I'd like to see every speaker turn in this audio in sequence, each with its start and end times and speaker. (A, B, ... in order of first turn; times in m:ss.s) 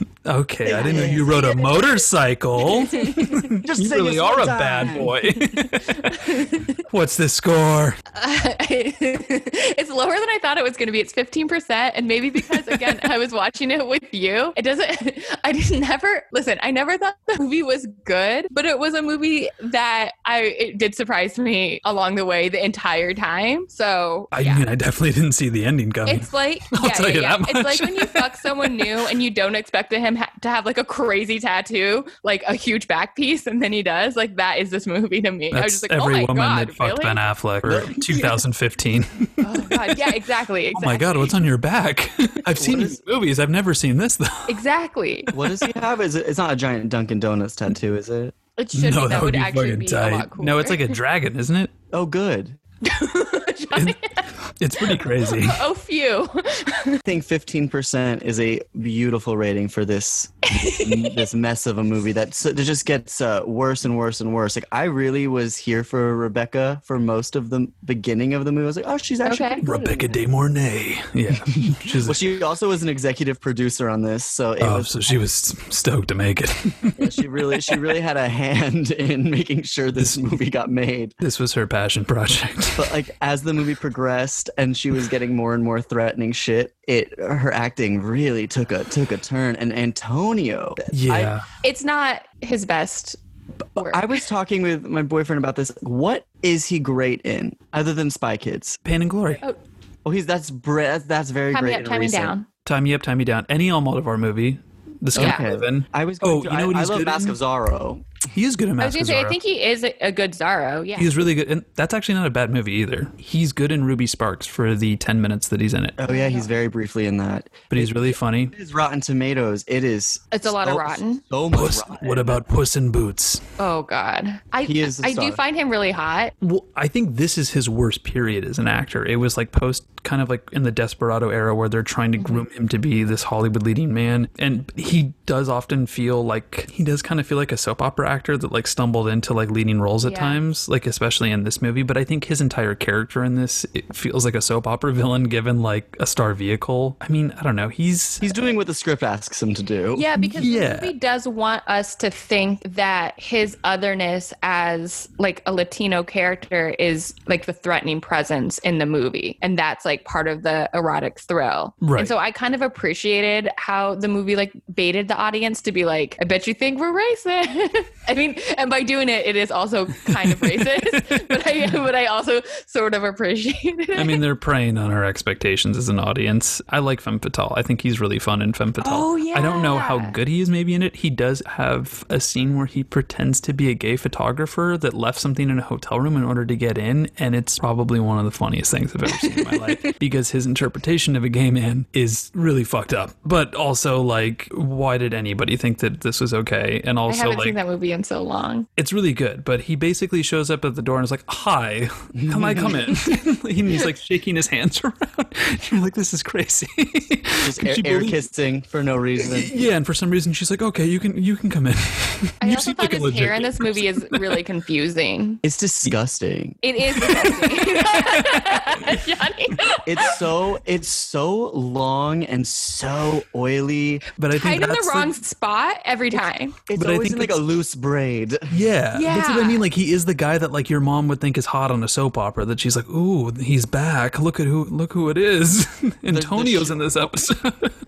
0:00.2-0:08.0 A
0:00.6-0:02.0 B
0:00.8-0:01.3 C
0:02.6-0:03.5 B
0:03.5-0:05.2 C
0:05.8-0:06.8 B
0:08.1-0:24.6 B
0:24.3-0:29.0 A
0:26.0-0:37.2 B
0:35.5-0:44.6 A
0:37.6-0:38.1 C
0:39.4-0:41.3 B
0:42.5-0:43.0 C
0:44.5-0:45.3 B
0:45.3-0:48.3 C
0:48.6-0:51.0 B
0:48.7-0:51.7 A
0:51.9-0:52.6 C
0:52.8-0:54.3 B
0:53.7-0:54.0 A
0:54.6-0:55.6 A
0:54.8-0:57.0 B
0:57.0-1:10.2 C
1:00.5-1:01.3 B
1:09.2-1:09.6 B
1:09.6-1:12.3 A
1:12.0-1:15.2 C
1:14.6-1:17.8 A
1:17.0-1:21.1 C
1:20.0-1:20.3 A
1:21.2-1:22.9 A
1:22.8-1:31.3 C
1:30.9-1:31.4 A
1:31.6-1:33.2 B
1:33.8-1:34.0 B
1:33.8-1:38.8 C
1:38.8-1:39.4 A
1:40.0-1:42.3 C
1:41.5-1:42.4 B
1:42.6-1:47.4 A
1:45.1-1:48.0 C
1:45.2-1:45.4 B
1:48.3-1:49.4 A
1:48.8-1:51.1 B
1:51.0-1:56.0 A
1:56.0-2:02.4 C
1:56.1-1:56.5 B
1:57.7-1:58.5 A
2:00.3-2:01.2 B
2:01.5-2:03.4 A
2:03.6-2:06.3 B
2:04.6-2:05.4 C
2:06.4-2:28.3 A
2:12.2-2:12.4 B
2:20.0-2:20.4 B
2:28.2-2:30.1 C
2:29.9-2:54.2 B
2:30.4-2:30.9 A
2:41.8-2:42.1 A
2:50.1-2:51.2 A
2:53.9-3:17.6 A
2:58.8-3:00.1 B
3:09.1-3:09.9 B
3:17.1-3:18.7 B
3:18.8-3:28.2 A
3:22.2-3:22.9 C
3:27.4-3:29.5 C
3:29.2-3:34.4 A
3:32.4-3:35.4 B
3:35.4-3:37.1 C
3:36.6-3:40.2 B
3:37.0-3:38.9 A
3:39.8-3:44.0 C
3:44.2-3:45.2 A
3:44.3-3:46.6 B
3:46.7-3:48.6 C
3:46.7-3:47.4 A
3:48.5-3:57.7 A
3:48.9-3:49.6 B
3:56.1-3:57.1 C